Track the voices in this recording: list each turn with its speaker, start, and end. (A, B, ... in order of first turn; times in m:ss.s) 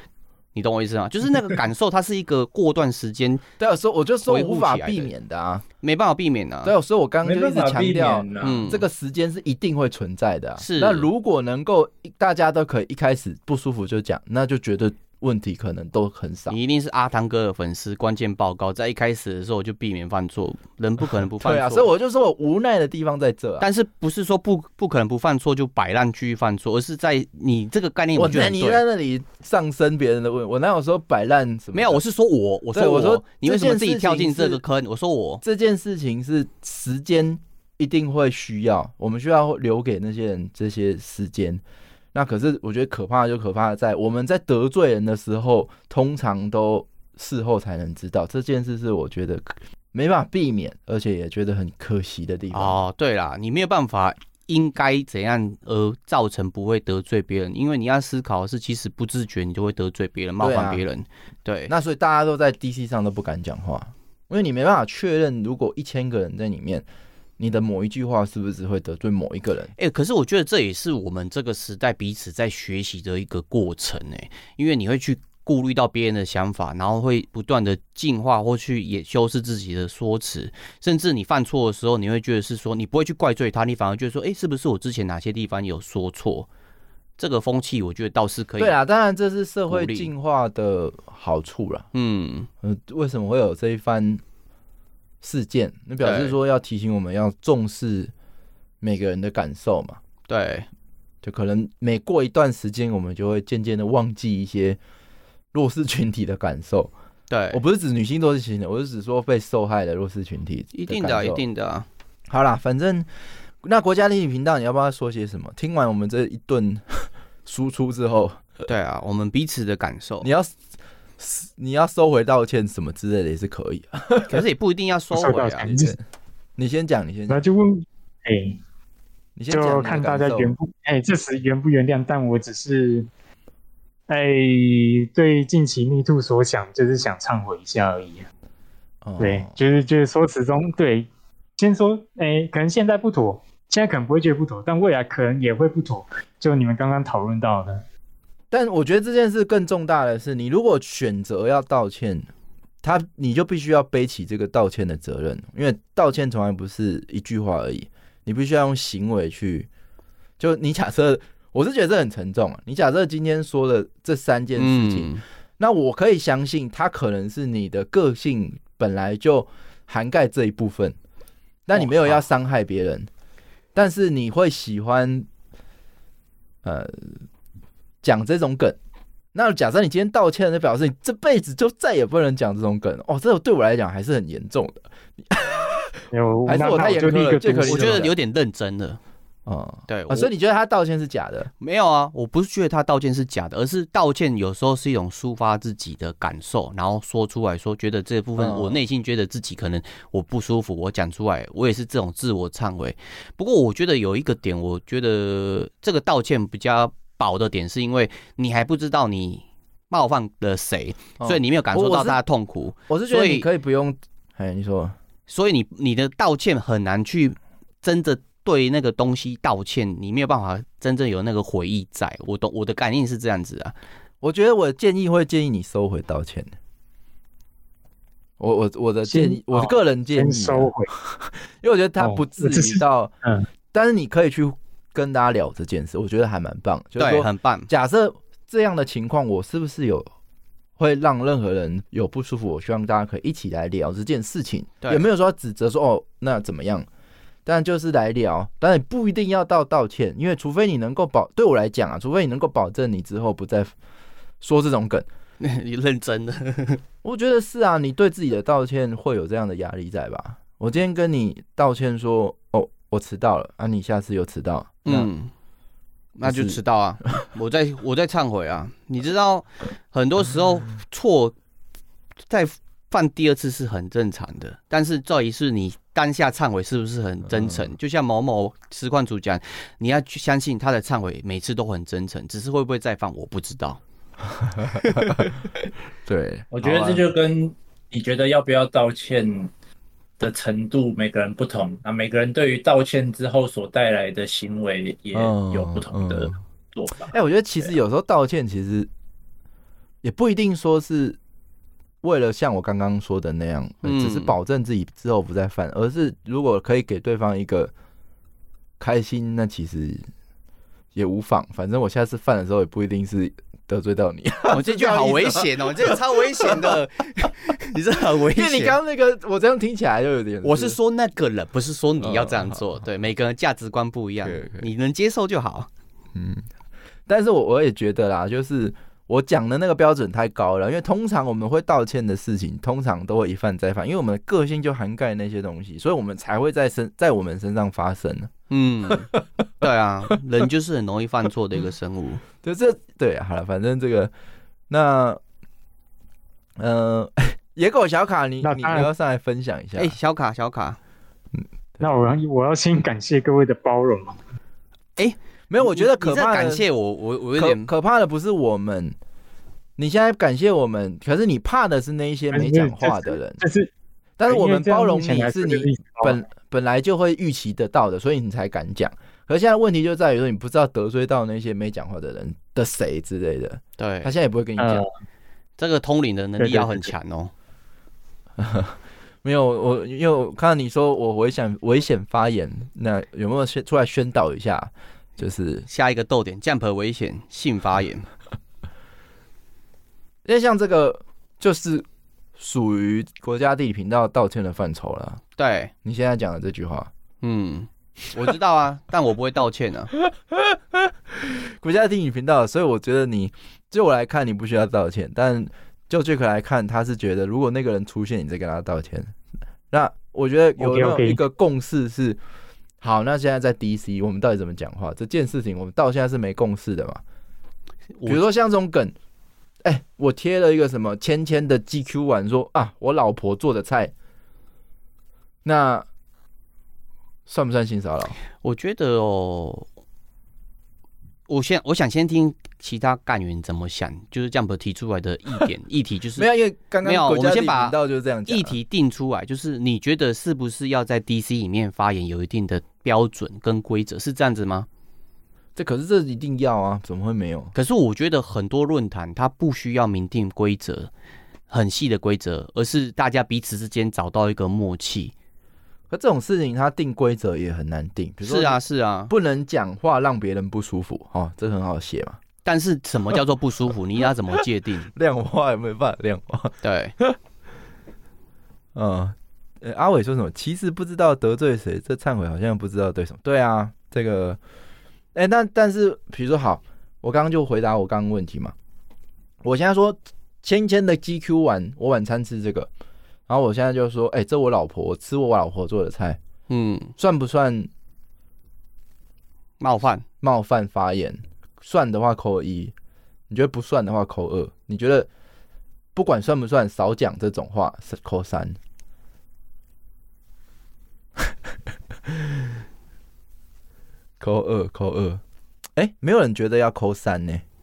0:00.6-0:03.4 A
0:03.6-0:05.6 B
0:04.2-0:05.1 A
0:05.8-0:06.7 A
0:06.6-0:16.6 B
0:07.2-0:08.7 C
0:08.4-0:08.8 A
0:10.6-0:11.1 A
0:16.5-0:21.9 A
0:21.4-0:23.7 B
0:23.6-0:28.8 A
0:28.1-0:32.0 B
0:31.7-0:35.4 A
0:32.7-0:34.6 B
0:35.4-0:41.6 B
0:42.1-0:52.8 B
0:52.5-1:01.7 A
1:00.4-1:00.8 B
1:01.7-1:06.8 B
1:07.4-1:09.7 B
1:09.8-1:26.5 A
1:27.2-1:28.8 A
1:28.6-1:31.9 B
1:29.7-1:30.1 A
1:31.9-1:32.5 A
1:32.6-1:34.2 B
1:35.2-1:38.1 B
1:36.0-1:36.4 A
1:38.8-1:40.0 B
1:40.3-1:40.7 A
1:41.2-1:44.8 B
1:45.5-1:46.9 B
1:47.3-1:47.6 A
1:47.5-1:51.4 B
1:50.7-1:51.9 A
1:52.3-1:53.1 B
1:53.6-1:58.5 B
1:58.6-2:00.3 A
2:00.2-2:00.5 B
2:01.2-2:04.4 B
2:04.3-2:05.8 A
2:05.1-2:06.0 D
2:05.7-2:06.0 B
2:06.6-2:07.4 B
2:07.3-2:08.6 D
2:09.4-2:10.6 B
2:09.5-2:13.1 D
2:14.1-2:18.3 D
2:19.0-2:19.6 B
2:19.2-2:27.8 D
2:28.5-2:32.3 B
2:32.8-2:39.7 B
2:40.4-2:51.0 B
2:44.6-2:45.2 A
2:51.7-2:53.1 B
2:51.8-2:52.2 A
2:53.8-2:55.3 B
2:56.6-2:57.2 B
2:58.0-2:58.8 B
2:59.3-3:05.9 B
3:06.1-3:08.0 D
3:06.4-3:08.1 B
3:07.6-3:09.0 A
3:09.4-3:11.5 B
3:09.9-3:10.3 A
3:11.6-3:33.5 A
3:18.4-3:18.8 B
3:31.2-3:32.2 B
3:32.9-3:34.9 B
3:35.3-3:43.8 A
3:44.2-3:46.5 B
3:48.4-3:53.1 B
3:49.1-3:50.9 D
3:52.0-3:53.5 D
3:53.7-4:00.1 B
3:57.0-3:57.7 A
4:00.8-4:06.9 B
4:07.4-4:13.7 B
4:14.4-4:15.1 B
4:15.4-4:16.8 A
4:17.0-4:25.1 B
4:24.8-4:25.3 A
4:26.2-4:31.4 A
4:26.2-4:26.6 B
4:32.3-4:43.8 A
4:37.3-4:37.7 B
4:44.3-4:45.4 B
4:44.8-4:45.3 A
4:46.1-4:47.0 B
4:46.5-4:49.5 C
4:50.2-4:57.7 C
4:55.1-4:56.4 B
4:57.0-4:58.9 B
5:00.0-5:01.2 B
5:02.0-5:07.7 B
5:03.8-5:04.3 A
5:08.8-5:10.1 B
5:10.9-5:16.8 B
5:14.5-5:18.8 A
5:18.3-5:20.8 B
5:20.4-5:25.7 A
5:22.0-5:22.6 B
5:24.2-5:24.7 B
5:26.1-5:26.4 B
5:27.1-5:38.3 B
5:38.5-5:39.1 A
5:38.9-5:39.6 B
5:39.6-5:42.2 A
5:42.4-5:44.1 B
5:44.7-5:45.2 B
5:46.6-5:50.0 B
5:48.4-5:48.9 D
5:49.8-5:50.8 A
5:51.8-5:54.2 D
5:55.0-5:57.7 A
5:55.5-5:56.6 B
5:57.4-5:59.0 B
5:59.8-6:03.4 B
6:02.3-6:03.7 D
6:04.2-6:14.8 B
6:04.3-6:06.2 D
6:13.8-6:14.1 A
6:14.6-6:14.9 D
6:15.6-6:17.3 A
6:16.4-6:16.9 D
6:18.4-6:25.7 B
6:25.7-6:28.1 A
6:30.2-6:31.8 B
6:32.4-6:35.2 B
6:35.4-6:35.7 A
6:35.8-6:36.9 B
6:37.2-6:39.9 A
6:40.1-6:49.1 B
6:49.7-6:52.2 B
6:50.6-6:51.2 D
6:52.8-6:57.0 B
6:58.1-6:58.9 B
6:59.6-7:03.9 B
7:05.4-7:05.9 B
7:07.3-7:08.2 B
7:08.4-7:09.6 A
7:11.3-7:16.3 A
7:16.2-7:18.6 B
7:16.8-7:24.7 A
7:25.6-7:27.5 B
7:27.6-7:30.9 A
7:31.5-7:35.1 A
7:35.9-7:42.2 B
7:38.2-7:39.1 A
7:42.4-7:44.9 A
7:44.9-7:47.2 B
7:46.6-7:46.9 A
7:48.8-7:54.4 B
7:55.1-7:58.5 B
7:59.4-8:02.7 B
8:03.3-8:06.2 B
8:06.5-8:06.9 A
8:07.0-8:07.7 B
8:09.6-8:10.0 A
8:10.2-8:12.7 B
8:13.3-8:15.1 B
8:15.9-8:18.6 B
8:22.1-8:22.4 B
8:24.2-8:25.2 B
8:25.8-8:27.4 B